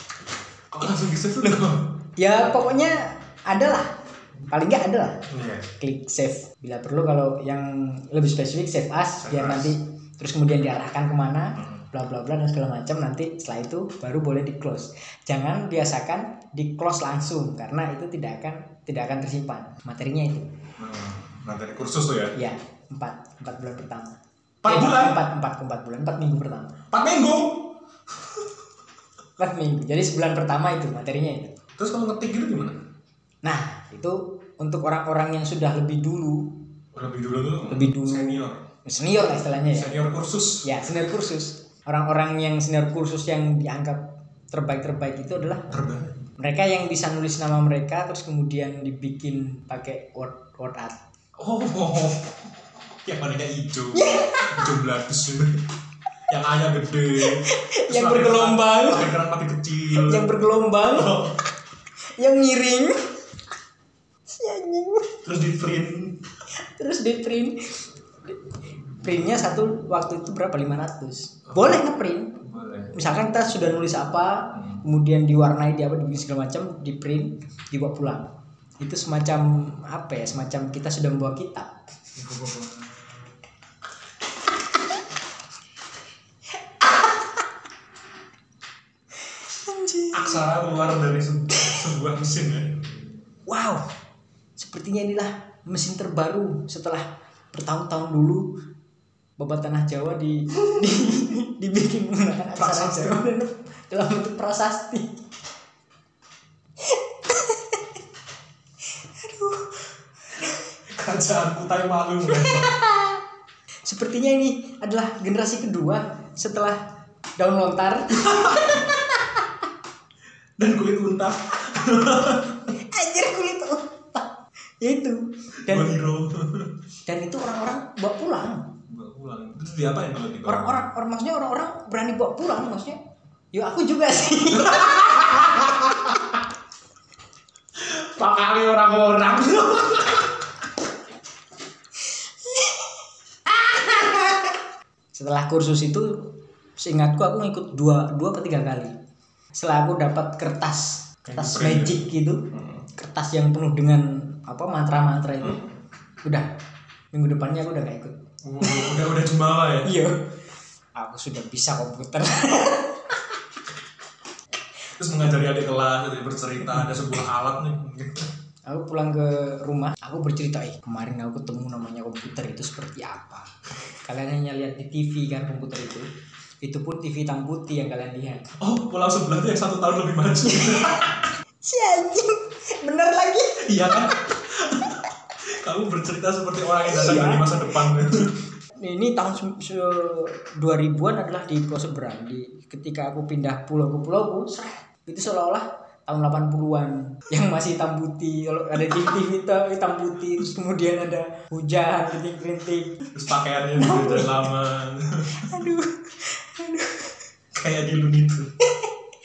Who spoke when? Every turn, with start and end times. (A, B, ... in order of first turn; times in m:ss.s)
0:00.7-0:01.9 A
0:02.2-0:04.0 B
0:04.5-0:05.2 B
0:05.3-0:05.7 A
0:05.8-0:20.5 B
0:09.2-0:09.7 A
0:11.6-0:11.8 A
0:20.8-0:22.3 A
0:22.4-0:26.8 B
0:24.6-0:25.2 A
0:26.9-0:28.5 A
0:29.4-0:31.6 B
0:31.8-0:32.8 A
0:33.4-0:36.6 B
0:36.9-0:38.7 A
0:37.7-0:39.9 B
0:39.7-0:40.7 A
0:40.6-0:45.7 B
0:45.7-0:46.3 A
0:46.4-0:51.0 B
0:51.4-0:55.6 A
0:53.9-0:54.7 B
0:56.3-1:00.3 A
0:57.2-0:59.2 B
0:59.9-1:01.3 B
1:00.9-1:01.4 A
1:02.2-1:03.0 B
1:04.3-1:05.2 B
1:05.2-1:06.2 A
1:06.6-1:12.4 B
1:11.5-1:11.8 A
1:12.4-1:12.9 A
1:12.9-1:18.3 B
1:18.8-1:21.8 B
1:22.2-1:23.2 A
1:29.4-1:30.5 B
1:30.1-1:32.8 A
1:33.5-1:33.9 B
1:34.6-1:38.5 B
1:39.4-1:45.2 B
1:42.6-1:43.3 A
1:46.8-1:47.8 B
1:49.0-1:49.8 B
1:50.9-1:52.8 A
1:52.3-1:53.2 B
1:53.8-1:56.8 B
1:57.4-1:59.4 B
1:58.2-1:58.9 A
2:00.6-2:02.6 A
2:02.7-2:04.3 B
2:04.8-2:06.0 B
2:05.6-2:06.7 A
2:07.1-2:08.7 B
2:08.9-2:10.8 A
2:10.4-2:13.0 B
2:13.5-2:15.8 B
2:14.6-2:16.4 A
2:17.8-2:20.4 A
2:22.5-2:23.0 B
2:23.7-2:24.3 A
2:25.2-2:29.0 B
2:29.6-2:35.6 B
2:31.2-2:32.9 A
2:37.1-2:39.0 B
2:38.4-2:39.9 A
2:39.8-2:40.2 B
2:41.0-2:43.2 B
2:45.0-2:48.3 A
2:48.7-2:56.1 B
2:56.6-2:58.5 B
2:58.6-3:01.2 A
3:00.4-3:04.2 B
3:03.6-3:08.4 A
3:06.9-3:07.6 B
3:08.8-3:23.0 B
3:23.1-3:25.5 A
3:23.8-3:24.4 B
3:25.3-3:27.2 B
3:27.5-3:28.5 A
3:28.7-3:28.9 B